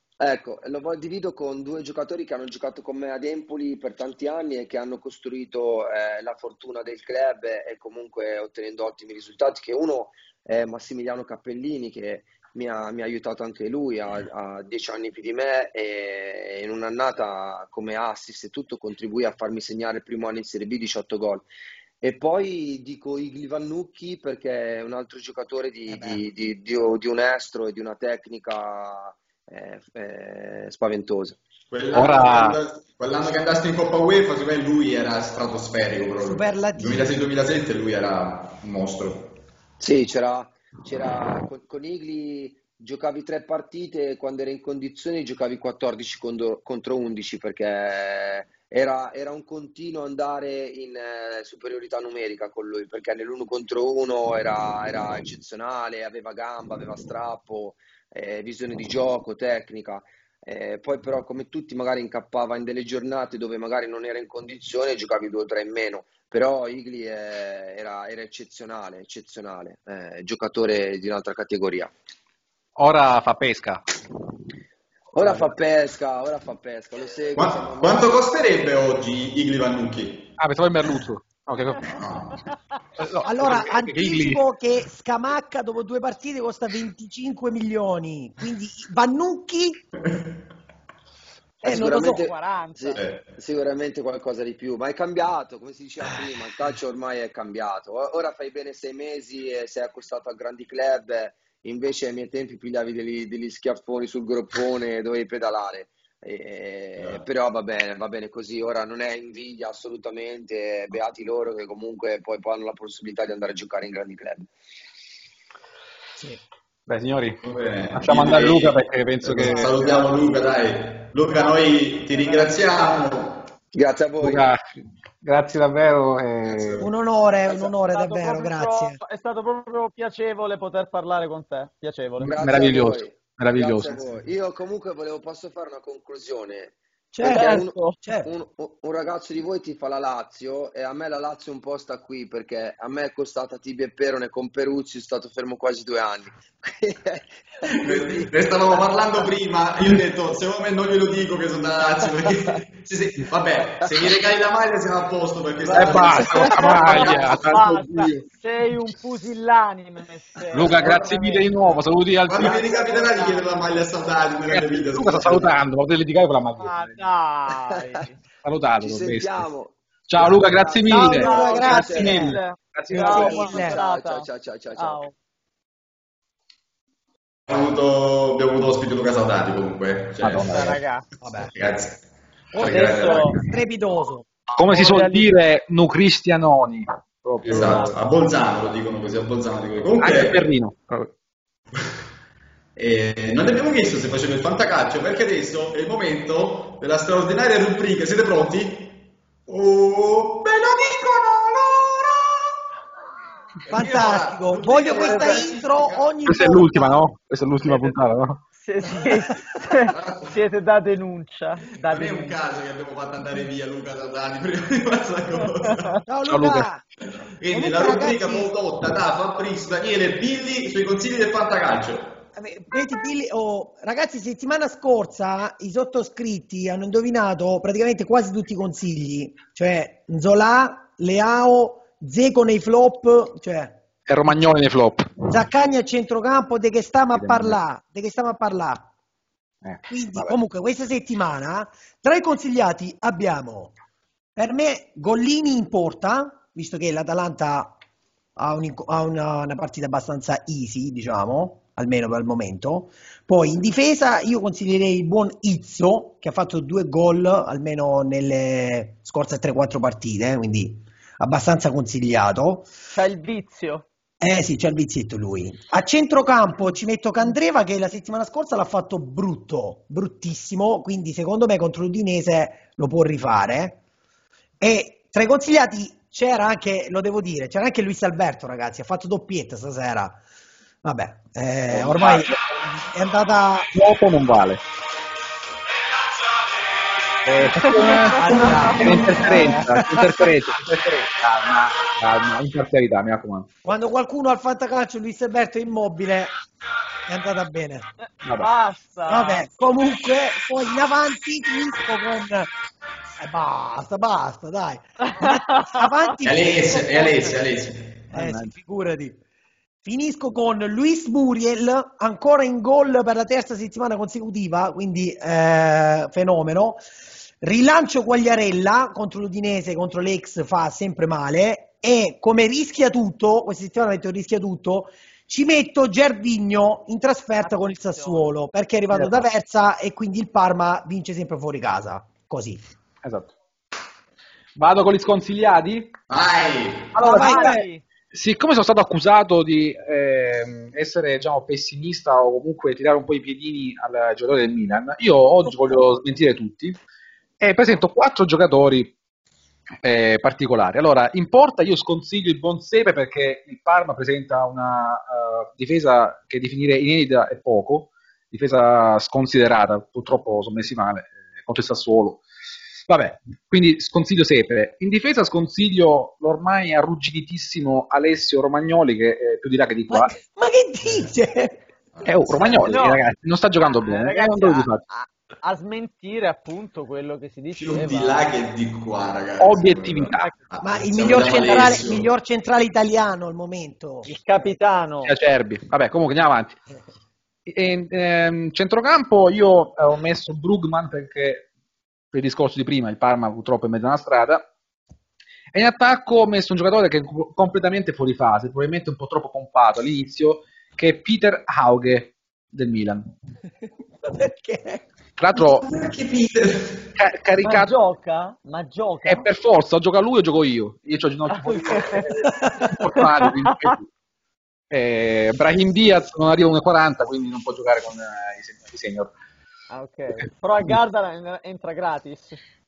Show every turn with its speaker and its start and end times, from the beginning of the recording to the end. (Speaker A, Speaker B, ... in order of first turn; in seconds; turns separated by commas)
Speaker A: 0.2-21.5, Speaker A: 22.0-31.4, Speaker B: 25.9-26.2, Speaker C: 31.7-39.3, Speaker D: 31.9-32.6, Speaker B: 36.2-37.1, Speaker A: 39.8-71.9, Speaker D: 72.8-73.8, Speaker A: 75.1-78.1, Speaker D: 75.2-75.5, Speaker C: 77.3-80.3, Speaker D: 80.4-82.0, Speaker C: 81.9-82.4, Speaker D: 83.0-84.4, Speaker B: 83.2-89.9, Speaker B: 91.6-92.3, Speaker A: 91.6-114.5, Speaker E: 91.7-93.0, Speaker C: 93.0-93.3, Speaker C: 107.0-107.2, Speaker D: 116.9-117.4, Speaker C: 117.4-123.4, Speaker D: 117.9-119.7, Speaker E: 119.5-120.1, Speaker E: 122.1-123.1, Speaker A: 123.7-124.5, Speaker D: 124.2-124.6, Speaker D: 125.2-126.9, Speaker C: 126.5-126.9, Speaker B: 126.8-129.0, Speaker E: 127.5-132.4, Speaker D: 132.2-134.0, Speaker A: 132.3-148.9, Speaker B: 137.1-138.3, Speaker E: 137.3-138.0, Speaker C: 147.7-157.5, Speaker D: 155.7-158.2, Speaker A: 155.7-156.8, Speaker E: 156.1-161.7, Speaker D: 160.5-162.9, Speaker C: 162.2-165.5, Speaker E: 162.4-163.4, Speaker D: 164.5-167.0, Speaker E: 166.6-168.2, Speaker A: 167.5-167.7, Speaker D: 168.4-169.5, Speaker A: 168.8-172.4, Speaker D: 170.1-173.2, Speaker B: 170.9-172.2, Speaker E: 171.0-175.1, Speaker B: 172.9-173.8, Speaker A: 172.9-175.1, Speaker C: 177.5-180.8, Speaker D: 180.2-180.8, Speaker E: 180.5-181.0, Speaker B: 181.2-181.5, Speaker C: 181.5-183.6, Speaker E: 182.5-183.4, Speaker B: 183.5-184.3, Speaker D: 184.6-188.0, Speaker E: 184.7-185.3, Speaker E: 187.4-187.9, Speaker C: 187.4-190.4, Speaker D: 190.0-191.1, Speaker C: 192.8-202.5, Speaker C: 203.6-206.1, Speaker B: 203.7-207.0, Speaker E: 204.9-205.5, Speaker D: 206.2-208.4, Speaker E: 207.6-207.9, Speaker E: 208.5-212.4, Speaker C: 209.9-210.4, Speaker C: 211.8-216.0, Speaker B: 216.1-216.8, Speaker D: 216.2-216.7, Speaker C: 217.4-222.2, Speaker B: 217.5-218.5, Speaker B: 222.3-233.8, Speaker D: 234.1-235.4, Speaker B: 235.3-238.9, Speaker D: 237.1-237.6, Speaker D: 239.6-240.4, Speaker B: 239.9-243.7, Speaker B: 244.3-247.8, Speaker B: 248.4-262.7, Speaker E: 262.9-263.9, Speaker B: 264.2-273.8, Speaker B: 274.6-280.2, Speaker B: 280.8-283.7, Speaker D: 281.7-282.4, Speaker D: 283.7-284.6, Speaker D: 287.2-293.5, Speaker E: 287.5-289.6, Speaker B: 287.6-290.3, Speaker B: 293.6-296.3, Speaker B: 297.1-297.9, Speaker D: 298.2-298.5, Speaker E: 298.4-299.5, Speaker B: 299.1-302.5, Speaker B: 303.2-307.4, Speaker E: 305.0-306.1, Speaker C: 306.2-308.0, Speaker D: 308.1-308.5, Speaker B: 308.1-309.2, Speaker B: 309.8-316.8, Speaker B: 317.4-332.6, Speaker E: 327.4-328.3, Speaker D: 328.9-329.2, Speaker D: 333.0-333.3, Speaker D: 334.6-335.9, Speaker C: 336.1-336.9, Speaker B: 336.9-337.6, Speaker E: 337.0-337.8, Speaker D: 337.0-346.8, Speaker D: 347.4-348.9, Speaker D: 349.8-362.2, Speaker D: 362.9-370.1, Speaker B: 369.9-371.6, Speaker C: 371.9-372.2, Speaker D: 372.0-374.8, Speaker B: 372.3-372.7, Speaker E: 372.6-373.0, Speaker E: 373.8-378.2, Speaker C: 377.5-382.1, Speaker D: 379.4-380.3, Speaker B: 380.6-384.1, Speaker E: 384.0-385.1, Speaker D: 385.0-386.6, Speaker D: 387.5-391.5, Speaker D: 392.1-394.5, Speaker D: 395.5-403.1, Speaker B: 404.0-404.9, Speaker D: 405.2-405.7, Speaker C: 405.6-406.9, Speaker D: 406.9-407.7, Speaker E: 407.4-409.3, Speaker D: 409.0-413.9, Speaker E: 411.3-412.2, Speaker B: 412.2-412.8, Speaker E: 413.0-413.7, Speaker D: 414.7-419.1, Speaker E: 419.7-422.4